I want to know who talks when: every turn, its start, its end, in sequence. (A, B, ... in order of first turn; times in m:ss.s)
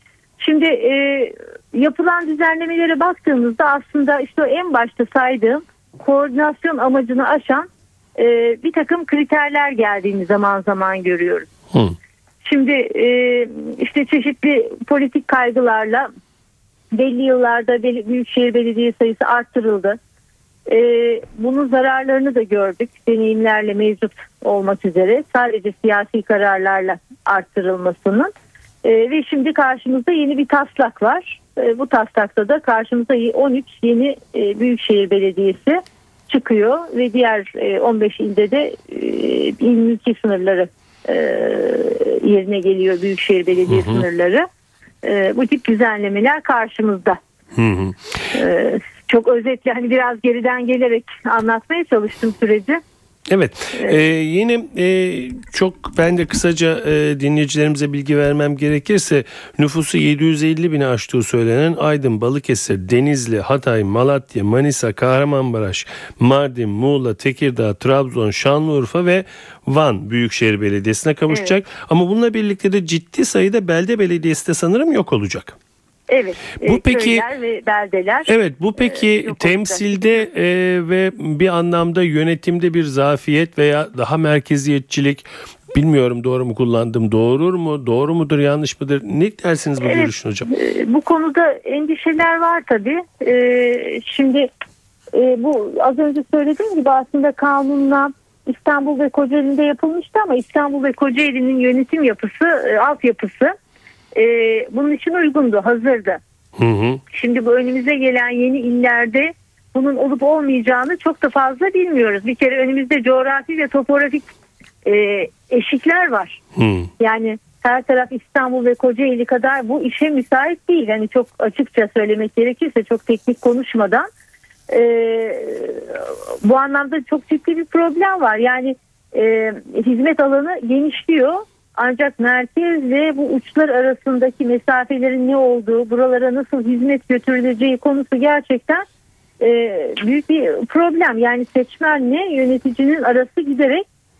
0:00.4-0:11.5 A
0:12.4-0:16.1 A
0:16.9-0:20.0 A
0:20.7-0:28.3 A
0:28.8-0:44.5 A
0:43.7-0:44.0 B
0:45.0-0:47.2 A
0:47.5-0:48.0 B
0:48.3-0:52.8 A
0:53.3-1:15.6 B
1:16.1-1:20.2 A
1:16.6-1:17.2 B
1:18.3-1:30.5 B
1:29.8-1:34.5 A
1:35.1-1:43.5 A
1:44.1-1:46.2 A
1:46.6-1:47.0 B
1:47.1-1:54.3 A
1:54.8-1:56.4 A
1:56.6-1:56.9 B
1:57.0-2:04.1 A
2:04.7-2:18.8 A
2:19.4-2:23.8 A